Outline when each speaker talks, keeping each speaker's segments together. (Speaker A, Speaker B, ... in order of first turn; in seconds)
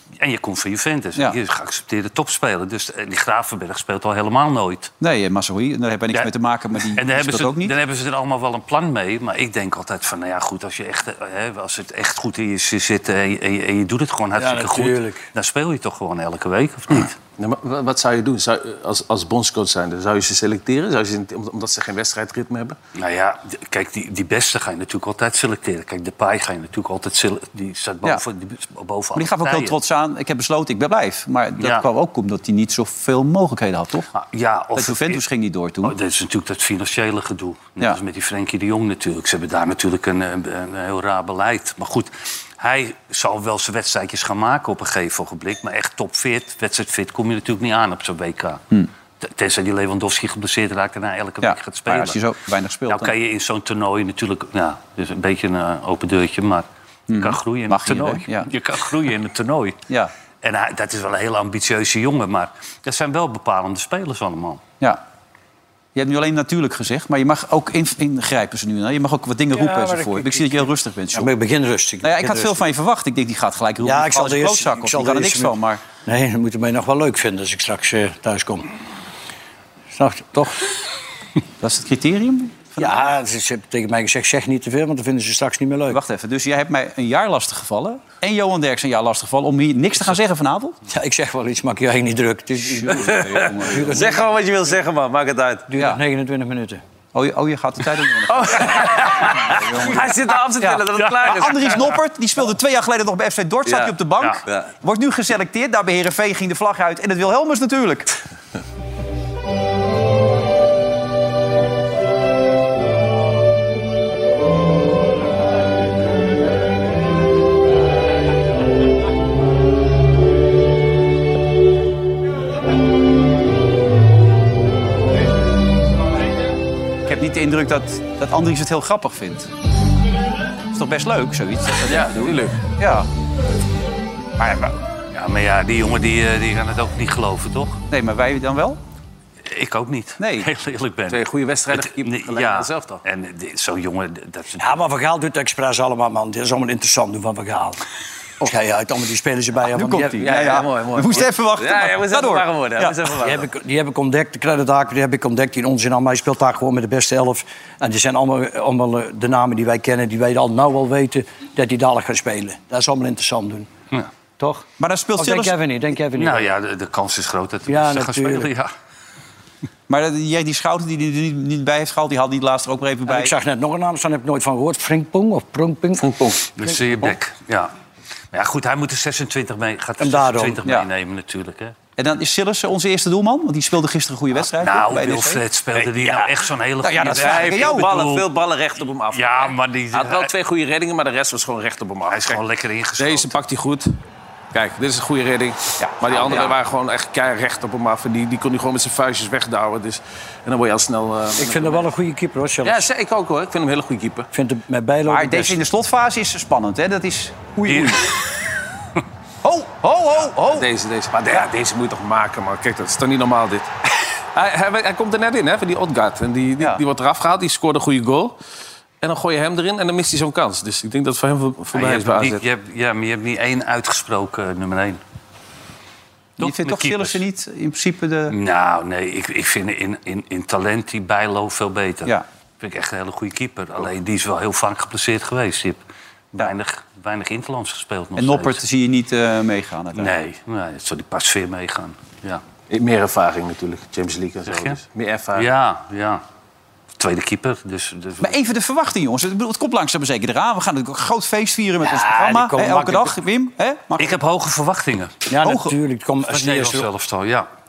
Speaker A: 0.2-4.9, 6.8-17.1, 23.0-29.8, 31.6-31.8, 34.1-35.2, 35.8-48.6, 49.2-52.2, 52.9-59.8, 60.4-64.6, 101.0-101.9, 135.1-137.8, 139.4-144.8, 166.2-168.7, 176.6-177.7, 178.3-181.8, 184.5-188.3, 189.1-190.3, 192.1-193.4, 207.7-208.2, 221.7-225.0, 226.4-227.2, 228.3-235.8, 236.3-238.6, 240.0-242.4, 244.5-244.8, 245.3-246.2, 247.0-248.3, 254.0-255.2, 256.3-257.5
Speaker B: 5.0-7.7, 29.1-34.1, 34.8-36.0, 51.4-53.1, 57.1-58.5, 66.0-71.3, 72.0-75.8, 81.6-82.9, 85.9-90.8, 92.8-94.0, 97.1-98.9, 99.5-100.1, 100.6-108.1, 127.1-129.5, 130.7-133.1, 134.4-134.8, 137.9-138.8, 140.2-140.5, 149.7-153.1, 164.8-165.6, 169.9-173.3, 182.0-185.4, 186.8-187.9, 195.8-196.6, 205.1-208.1, 209.4-210.7, 226.4-228.4, 238.2-240.2, 248.2-254.2, 255.4-255.7
Speaker C: 14.4-15.2, 69.6-70.0, 71.1-72.7, 73.8-78.7, 79.9-80.6, 82.8-86.0, 90.9-94.2, 95.7-96.8, 144.6-147.8, 148.4-150.4, 153.2-163.7, 164.4-166.5, 167.7-168.5, 173.1-176.1, 180.0-180.6, 201.4-202.9, 204.3-205.6, 251.8-253.1, 255.3-256.9
Speaker D: 17.4-22.8, 92.9-95.7, 98.3-101.8, 131.9-132.6, 141.1-143.0, 150.2-153.5, 176.0-176.4, 187.1-192.4, 193.0-193.9, 194.5-201.9, 202.6-204.3, 210.5-213.7, 214.3-218.4, 219.0-222.4, 242.7-245.5